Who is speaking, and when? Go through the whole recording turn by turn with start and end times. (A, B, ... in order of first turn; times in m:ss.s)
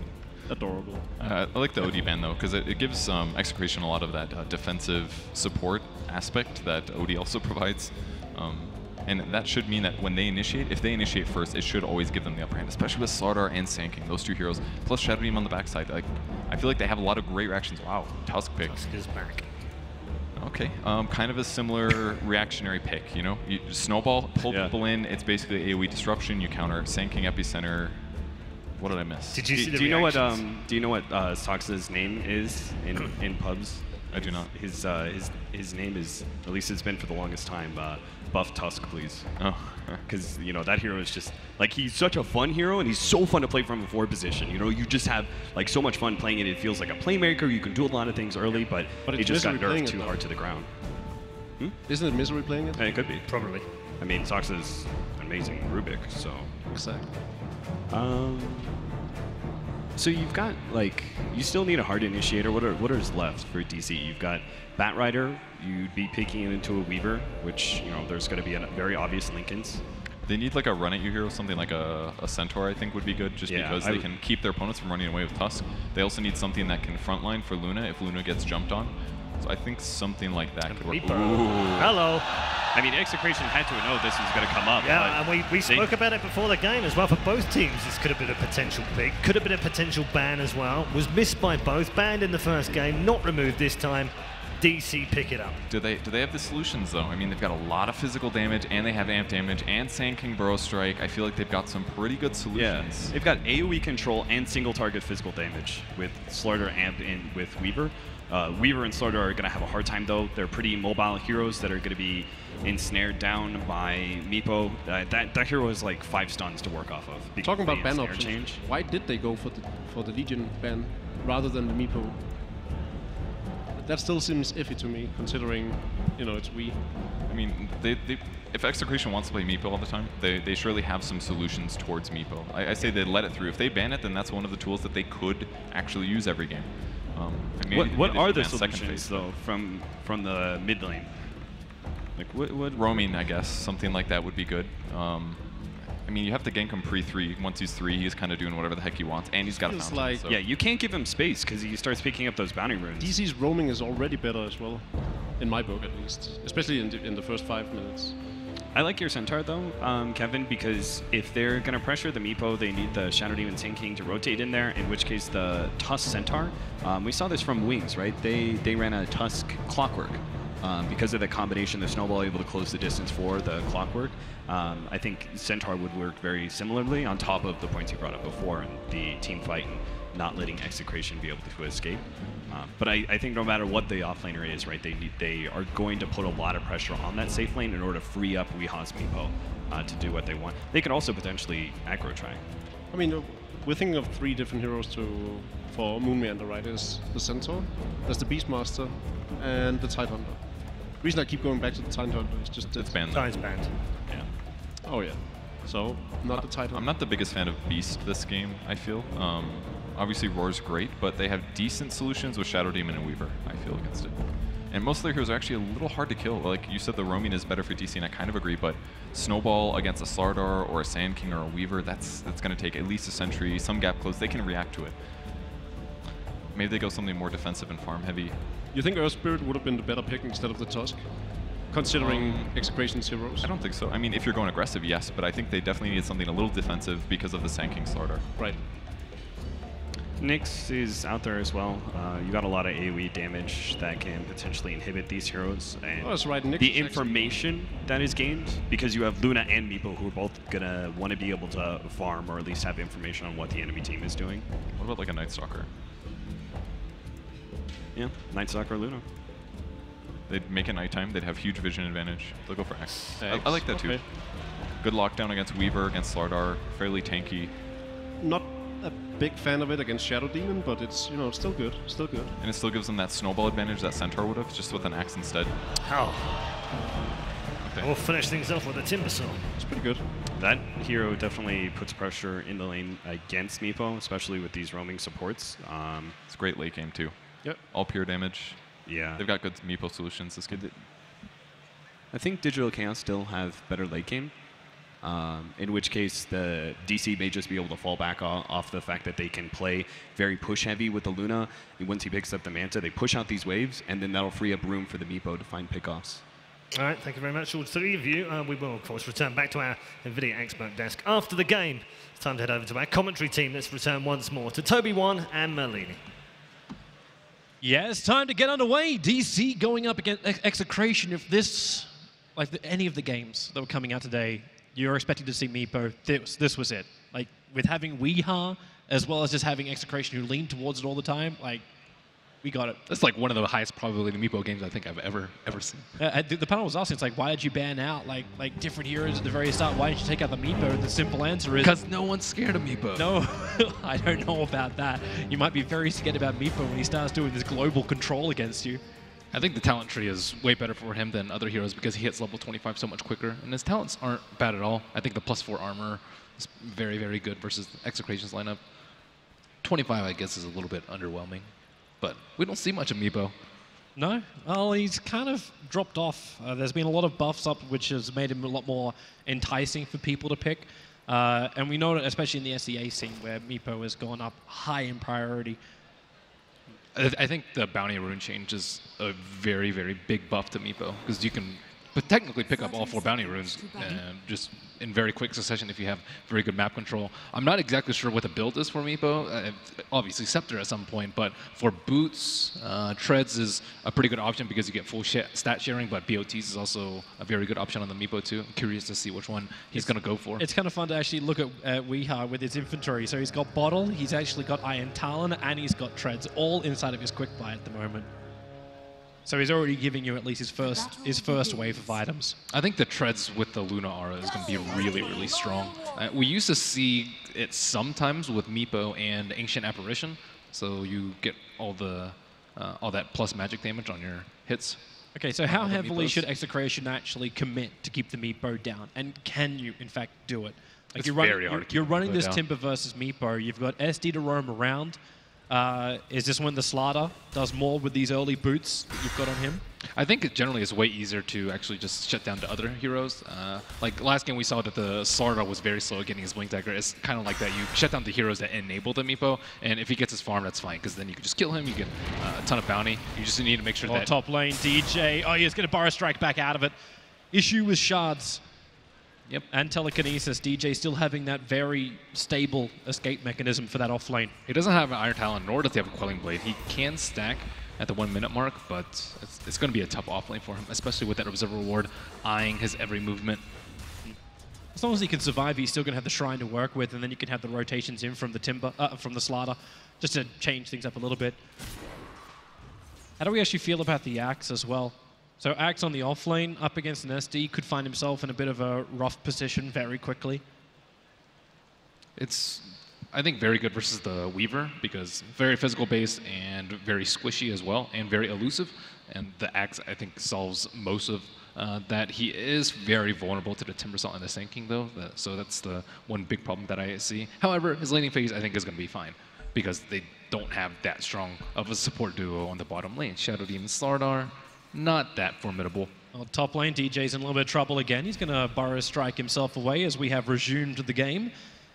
0:00.5-0:01.1 A
0:01.2-0:18.8 B
0:18.6-0:19.5 C
0:20.4-0:28.2 B
0:24.4-0:24.7 D
0:28.7-0:29.6 B
0:29.3-0:30.4 C
0:29.5-0:39.4 D
0:34.1-0:34.5 B
0:39.4-0:40.0 B
0:40.0-0:50.7 D
0:49.1-0:50.2 A
0:51.9-0:52.8 A
0:52.8-0:53.3 D
0:53.3-0:53.6 C
0:54.0-0:56.5 D
0:56.7-0:57.1 A
0:57.9-0:58.8 D
0:59.9-1:09.8 D
1:10.2-1:22.0 B
1:13.5-1:14.1 D
1:20.7-1:22.2 C
1:22.7-1:25.9 D
1:24.8-1:35.6 C
1:35.7-1:43.1 B
1:42.5-1:58.6 D
1:57.4-2:02.2 A
2:03.7-2:06.8 A
2:07.3-2:19.3 B
2:17.7-2:21.3 D
2:22.2-2:23.1 D
2:22.7-2:30.4 B
2:29.6-2:30.2 A
2:30.3-2:33.1 D
2:33.0-2:38.2 A
2:38.7-3:12.4 D
3:12.9-3:22.9 A
3:22.6-3:23.5 B
3:23.1-3:23.7 C
3:24.8-3:26.8 A
3:26.3-3:45.0 B
3:46.5-3:48.4 B
3:48.7-3:53.5 A
3:51.9-3:52.6 B
3:53.4-3:58.5 B
4:00.2-4:14.4 D
4:06.0-4:07.4 A
4:14.7-4:15.7 B
4:17.9-4:19.0 D
4:20.3-4:27.5 B
4:23.2-4:24.0 A
4:28.2-4:32.3 A
4:32.4-4:35.5 B
4:35.8-4:36.5 C
4:37.6-4:37.9 B
4:37.8-4:39.5 C
4:39.6-4:40.0 A
4:40.4-4:46.2 D
4:46.3-4:50.7 B
4:48.8-4:49.2 D
4:52.1-4:54.4 D
4:55.0-5:06.2 D
5:06.8-5:16.0 C
5:17.6-5:31.6 E
5:32.4-5:32.8 E
5:32.9-5:35.9 F
5:36.0-5:41.8 E
5:41.6-5:43.2 F
5:42.9-5:48.8 E
5:49.3-5:58.6 F
5:59.6-6:01.5 F
6:02.0-6:03.3 F
6:04.0-6:15.6 E
6:16.9-6:40.4 F
6:39.7-6:48.1 E
6:49.2-6:52.4 E
6:52.5-7:04.8 F
7:05.1-7:15.0 E
7:05.4-7:06.2 F
7:11.0-7:12.4 F
7:15.5-7:19.6 E
7:19.9-7:34.1 F
7:33.8-7:36.7 E
7:37.3-7:38.4 E
7:39.5-7:44.3 E
7:44.4-7:53.4 F
7:54.7-8:01.4 E
8:03.2-8:10.4 E
8:12.2-8:35.9 F
8:36.1-8:41.3 E